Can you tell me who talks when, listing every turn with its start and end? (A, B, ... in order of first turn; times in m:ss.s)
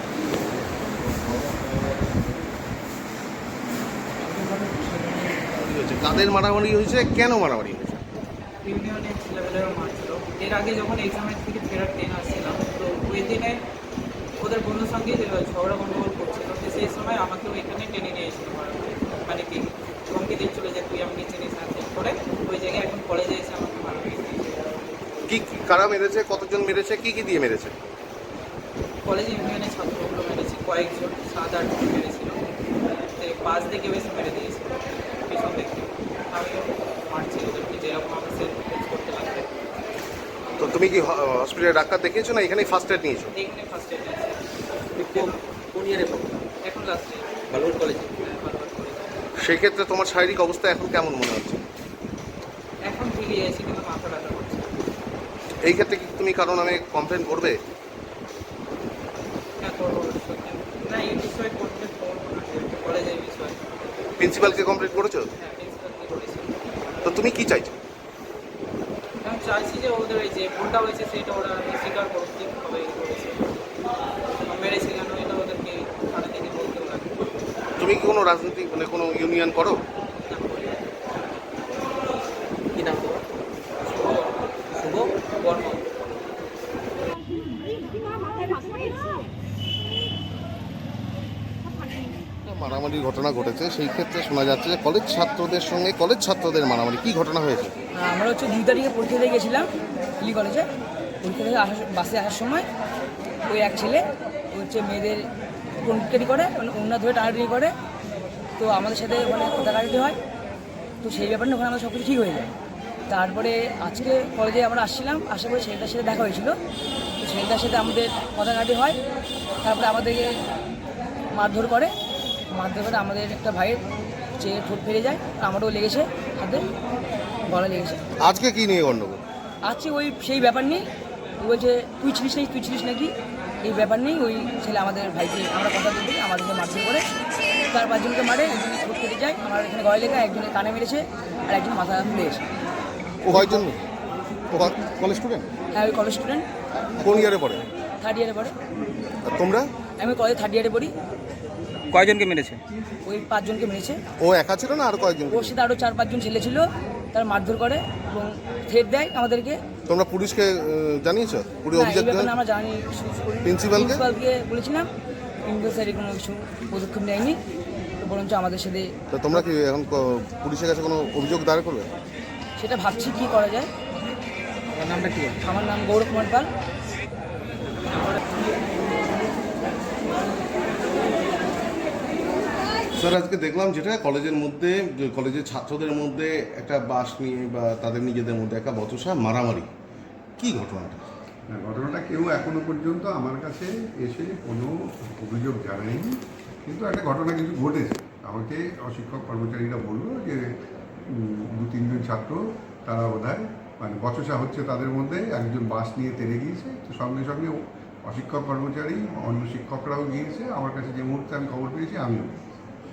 0:05.6-0:08.0 A
0:08.6-0:13.6 B
0:14.4-0:24.7 B
0:25.3-0:27.7 A
0:29.0-0:32.4 B
0:33.2-0:39.8 B
0:40.6-0:43.3 A
0:43.3-0:44.4 B
0:45.0-0:45.4 B
0:45.0-0:46.3 C
0:46.6-0:49.3 B
0:47.5-0:48.1 C
0:49.4-0:51.6 A
0:52.9-0:54.8 B
0:55.6-0:57.6 A
0:59.6-1:06.6 B
1:04.2-1:05.3 A
1:07.0-1:07.8 A
1:09.2-1:13.6 B
1:14.4-1:17.3 B
1:17.8-1:19.8 A
1:20.2-1:20.8 B
1:22.8-1:23.2 C
1:23.8-1:24.2 B
1:24.8-1:25.1 C
1:25.4-1:25.8 B
1:32.4-1:37.7 A
1:37.9-1:39.7 D
1:40.2-1:40.7 D
1:41.2-1:42.7 D
1:43.5-1:45.3 D
1:45.8-1:47.7 D
1:48.6-1:50.2 D
1:51.0-1:52.5 D
1:53.1-1:56.6 D
1:57.2-1:59.0 D
1:59.6-2:00.4 D
2:01.3-2:01.9 D
2:02.5-2:03.8 D
2:04.4-2:06.7 D
2:07.5-2:08.0 D
2:08.2-2:09.2 A
2:09.6-2:10.8 D
2:11.4-2:13.1 D
2:13.6-2:17.1 D
2:17.7-2:22.4 D
2:23.2-2:23.8 A
2:24.5-2:25.5 A
2:25.7-2:26.5 D
2:27.0-2:27.6 A
2:28.0-2:28.5 D
2:29.2-2:29.7 A
2:30.0-2:30.9 D
2:31.9-2:32.6 C
2:33.0-2:34.0 D
2:34.2-2:35.5 A
2:35.3-2:39.6 D
2:39.9-2:42.3 A
2:41.7-2:44.9 D
2:43.4-2:44.0 A
2:45.4-2:47.4 D
2:48.0-2:48.9 D
2:49.1-2:51.9 A
2:52.6-2:53.7 D
2:54.7-2:55.3 C
2:55.4-2:56.5 D
3:02.9-3:09.7 A
3:10.4-3:11.0 A
3:11.5-3:20.5 E
3:21.1-3:32.7 E